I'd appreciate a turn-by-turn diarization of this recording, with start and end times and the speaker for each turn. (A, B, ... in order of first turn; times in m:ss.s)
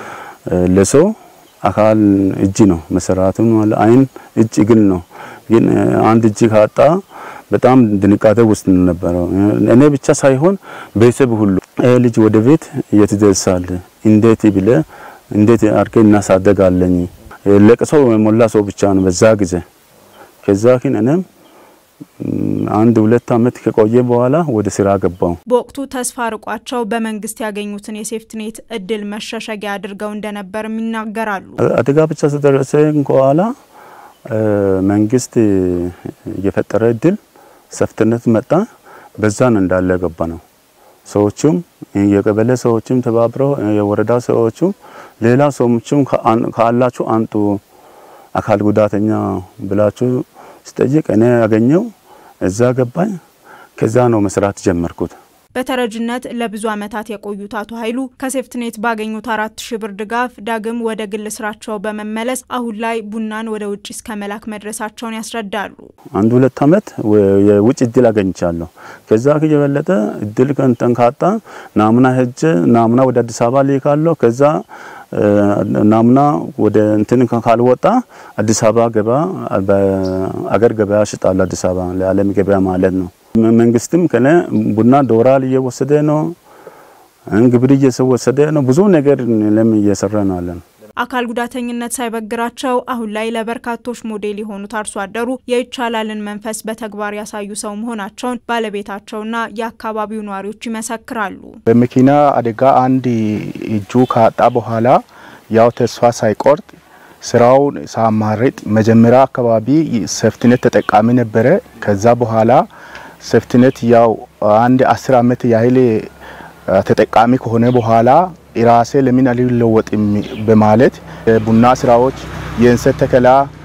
0:00.5-0:01.1 A
0:01.6-0:07.0 A
0:07.5-0:14.8 A
0:15.3-0:19.6 A
0:20.4-0:21.2 A
0:22.2-0:25.4 A
0:25.5-0:31.6 B
0:31.6-0:33.5 A
0:34.3-0:37.2 A
0:37.7-0:38.6 A
0:39.2-0:40.4 A
0:41.0-0:47.6 A
0:48.3-0:51.9 A
0:52.4-0:53.1 A
0:53.8-0:55.2 A
0:55.5-1:05.9 B
1:06.2-1:14.6 A
1:15.1-1:26.3 A
1:27.3-1:30.6 A
1:31.0-1:41.6 B
1:41.7-1:45.0 C
1:45.5-1:46.6 C
1:47.2-1:52.6 C
1:53.2-1:56.1 C
1:56.7-2:03.5 C